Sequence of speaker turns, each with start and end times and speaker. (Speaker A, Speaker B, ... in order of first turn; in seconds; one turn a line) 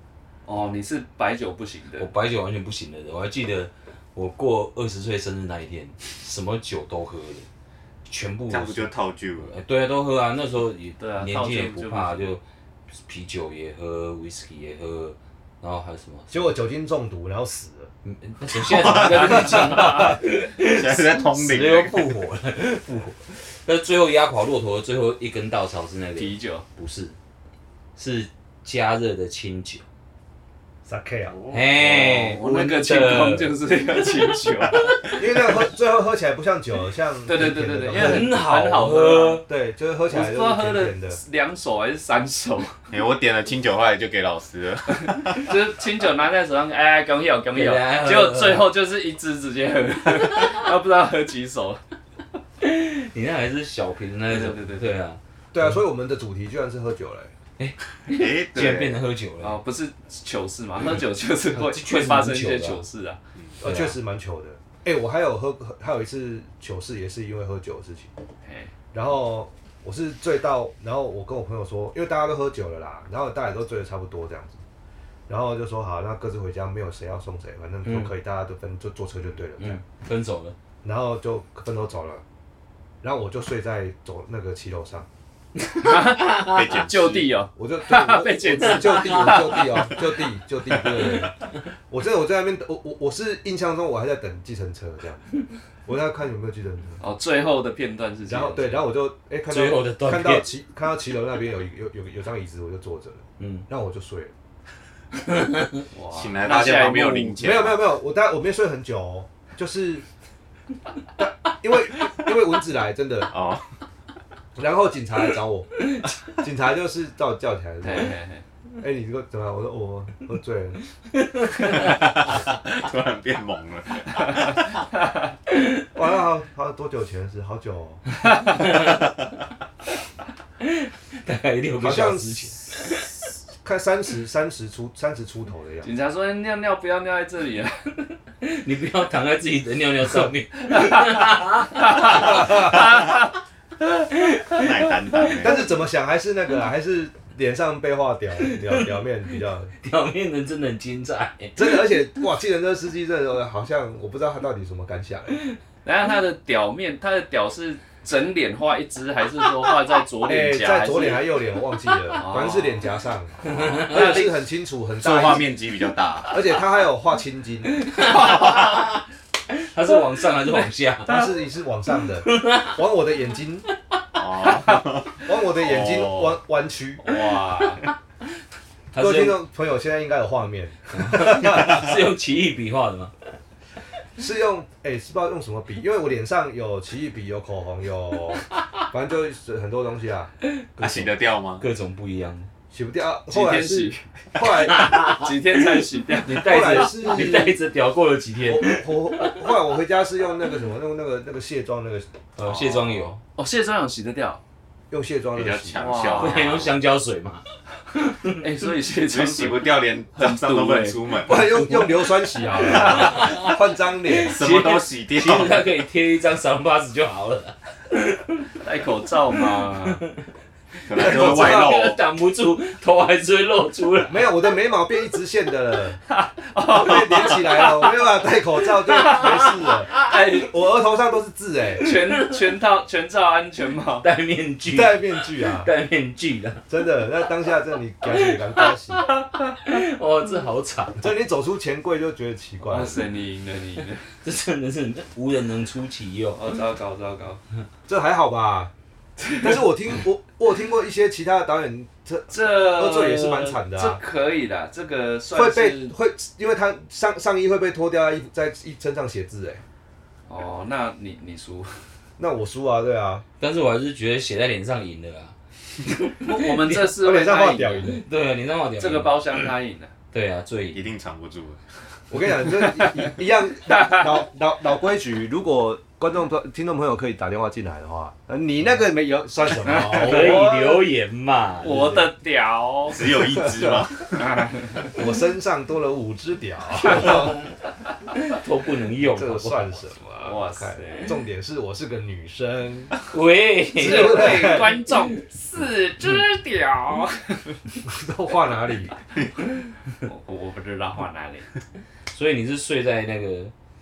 Speaker A: 0.5-2.1
Speaker B: 2.0-7.5
Speaker B: 8.1-8.9
Speaker C: 8.5-9.5
Speaker B: 9.4-12.4
Speaker A: 11.0-12.3
Speaker B: 12.9-16.5
Speaker D: 16.3-17.9
Speaker B: 18.0-27.1
Speaker C: 18.7-19.6
Speaker A: 18.9-20.0
Speaker D: 19.5-20.1
Speaker C: 20.5-22.1
Speaker A: 26.1-26.6
Speaker B: 28.0-29.8
Speaker D: 30.9-31.4
Speaker C: 31.3-31.7
Speaker B: 31.5-33.5
Speaker A: 31.8-35.0
Speaker B: 34.7-35.1
Speaker D: 35.2-38.4
Speaker A: 37.2-39.4
Speaker B: 37.9-39.5
Speaker D: 39.5-41.2
Speaker A: 40.1-42.7
Speaker C: 42.9-45.4
Speaker A: 45.3-51.8
Speaker B: 47.5-48.7
Speaker B: 52.6-55.7
Speaker A: 54.3-54.9
Speaker D: 55.5-57.3
Speaker B: 57.6-59.6
Speaker C: 58.1-59.0
Speaker A: 59.4-63.2
Speaker B: 61.5-62.8
Speaker D: 63.6-68.1
Speaker B: 63.6-63.9
Speaker A: 68.4-68.7
Speaker D: 68.9-74.6
Speaker D: 75.3-79.8
Speaker B: 77.8-78.1
Speaker B: 79.6-80.5
Speaker D: 80.8-82.2
Speaker D: 83.0-85.1
Speaker A: 85.8-90.0
Speaker C: 85.9-87.3
Speaker D: 87.6-91.3
Speaker D: 91.9-95.3
Speaker D: 95.8-97.0
Speaker A: 97.0-98.9
Speaker D: 98.3-104.3
Speaker B: 99.5-100.5
Speaker B: 103.4-103.7
Speaker B: 105.2-105.8
Speaker A: 105.9-107.5
Speaker C: 106.1-107.9
Speaker D: 107.4-110.0
Speaker D: 111.2-113.3
Speaker C: 113.3-113.7
Speaker D: 114.5-118.1
Speaker A: 117.8-118.4
Speaker D: 118.8-120.8
Speaker B: 121.2-121.9
Speaker C: 121.8-124.7
Speaker D: 125.9-128.0
Speaker B: 128.5-129.1
Speaker B: 130.6-133.0
Speaker D: 131.8-132.6
Speaker D: 133.6-135.9
Speaker A: 135.8-138.0
Speaker B: 138.4-142.6
Speaker A: 141.9-142.7
Speaker C: 144.5-145.6
Speaker D: 145.4-149.7
Speaker B: 149.8-151.8
Speaker D: 151.6-155.4
Speaker A: 155.8-161.3
Speaker D: 160.2-165.6
Speaker A: 162.1-162.9
Speaker B: 163.5-164.3
Speaker C: 165.0-166.4
Speaker D: 166.3-167.8
Speaker B: 167.9-171.3
Speaker D: 171.1-173.7
Speaker B: 172.2-172.8
Speaker C: 174.1-176.4
Speaker D: 175.2-177.1
Speaker A: 177.0-177.9
Speaker B: 178.9-179.4
Speaker D: 178.9-181.9
Speaker B: 180.9-183.1
Speaker D: 184.2-191.1
Speaker C: 190.8-191.6
Speaker B: 191.6-192.5
Speaker D: 192.7-195.2
Speaker A: 193.3-194.0
Speaker B: 194.6-199.4
Speaker A: 194.7-196.9
Speaker D: 196.3-197.6
Speaker D: 198.4-202.1
Speaker B: 202.4-203.2
Speaker A: 202.8-204.4
Speaker D: 204.9-205.9
Speaker C: 205.3-206.7
Speaker A: 205.7-206.6
Speaker B: 206.2-207.4
Speaker B: 207.9-208.4
Speaker A: 208.4-211.1
Speaker C: 208.9-211.6
Speaker D: 211.2-214.4
Speaker B: 211.4-212.1
Speaker A: 212.6-213.2
Speaker B: 212.6-213.6
Speaker B: 214.1-218.4
Speaker C: 214.3-215.6
Speaker A: 218.6-220.0
Speaker C: 220.8-222.0
Speaker B: 220.9-224.3
Speaker D: 220.9-221.9
Speaker D: 224.1-226.0
Speaker A: 226.1-228.2
Speaker D: 226.7-231.9
Speaker A: 228.7-230.5
Speaker A: 231.8-234.1
Speaker B: 234.0-236.7
Speaker D: 234.7-235.7
Speaker D: 236.7-239.1
Speaker B: 239.6-241.1
Speaker D: 241.0-243.0
Speaker A: 242.7-244.0
Speaker B: 244.2-246.5
Speaker A: 246.3-247.4
Speaker D: 247.9-248.7
Speaker A: 249.2-249.5
Speaker D: 249.4-254.0
Speaker A: 252.3-255.9
Speaker D: 255.3-259.6
Speaker A: 260.3-261.8
Speaker D: 262.2-263.2
Speaker B: 263.4-265.3
Speaker A: 266.2-268.0
Speaker B: 266.3-266.9
Speaker D: 266.9-268.0
Speaker B: 267.8-269.4
Speaker A: 268.8-269.9
Speaker B: 270.1-270.9
Speaker C: 270.7-271.6
Speaker D: 272.1-280.8
Speaker A: 272.6-273.1
Speaker A: 273.7-274.1
Speaker A: 279.9-280.4
Speaker B: 279.9-282.0
Speaker A: 281.6-283.2
Speaker D: 281.6-282.0
Speaker C: 282.9-284.5
Speaker D: 283.4-283.9
Speaker A: 284.2-284.9
Speaker D: 284.9-287.4
Speaker B: 286.9-287.4
Speaker B: 288.1-289.8
Speaker D: 289.0-292.9
Speaker A: 290.2-291.1
Speaker B: 293.1-295.1
Speaker A: 293.8-297.6
Speaker D: 293.8-294.8
Speaker D: 297.8-298.9
Speaker A: 300.0-301.5
Speaker B: 302.1-303.5